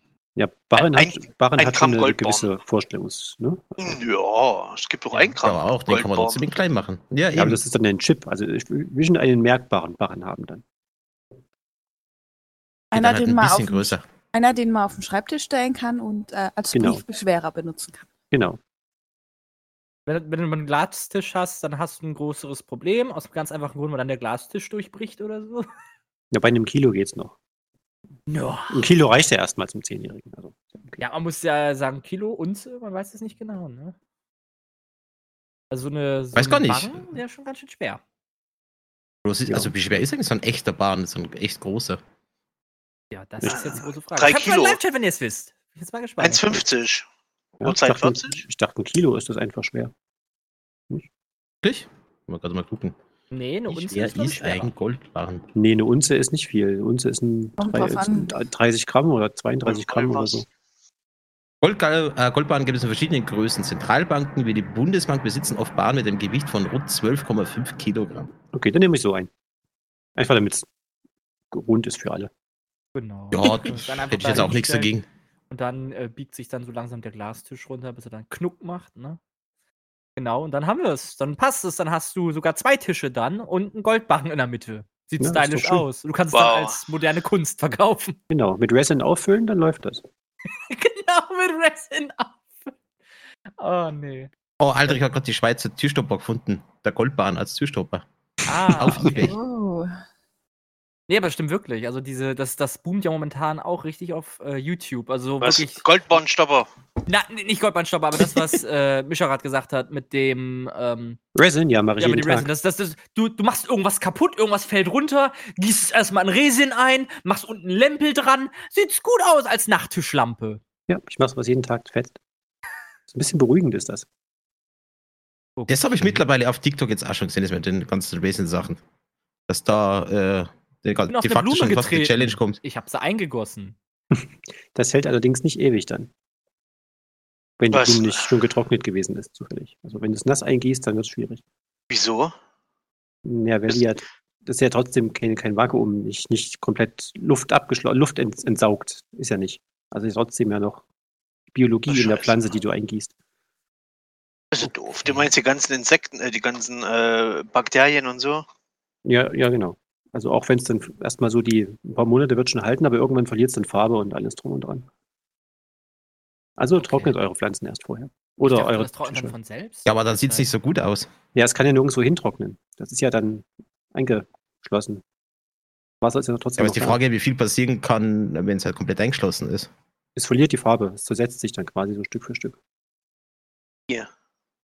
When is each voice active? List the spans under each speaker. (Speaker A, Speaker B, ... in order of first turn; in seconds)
Speaker A: 0.4-3.9, 7.4-10.6, 16.7-17.0, 18.3-18.6, 26.3-27.4, 28.7-31.0, 47.6-49.9, 55.5-60.5, 68.5-69.3, 70.2-70.7, 71.5-72.3, 85.2-85.8, 88.3-90.0, 111.4-112.5, 120.9-122.2, 123.1-124.1, 134.7-136.1, 137.6-141.4, 143.2-150.8, 151.5-153.1, 159.1-164.9, 166.6-169.3, 171.3-175.0, 176.0-177.0, 180.2-182.6
Speaker B: 0.8-2.5, 3.8-6.5, 43.5-44.8, 46.2-47.1, 47.6-48.4, 59.6-60.5, 86.3-86.8, 105.4-106.7, 137.7-138.3, 141.9-142.3, 151.9-152.3, 154.5-158.4
Speaker C: 5.4-7.6, 12.9-14.0, 36.4-37.0, 39.2-42.0, 51.6-53.0, 53.7-55.5, 61.6-68.3, 73.3-75.1, 94.6-98.0, 98.7-99.4, 125.7-128.8, 129.5-132.6, 169.9-171.1, 176.6-179.7
Speaker D: 12.9-18.1, 57.6-58.3, 99.0-99.9
Speaker E: 20.1-25.7, 28.3-28.9, 31.0-34.0, 35.7-38.0, 43.1-46.6, 53.3-54.7, 73.0-74.9, 75.5-79.2, 80.2-88.2, 90.6-92.7, 93.6-94.3, 98.5-99.2, 101.1-105.8, 107.1-111.2, 112.0-120.6, 125.6-126.2, 131.1-133.8, 155.0-155.3, 166.8-167.2, 168.4-170.5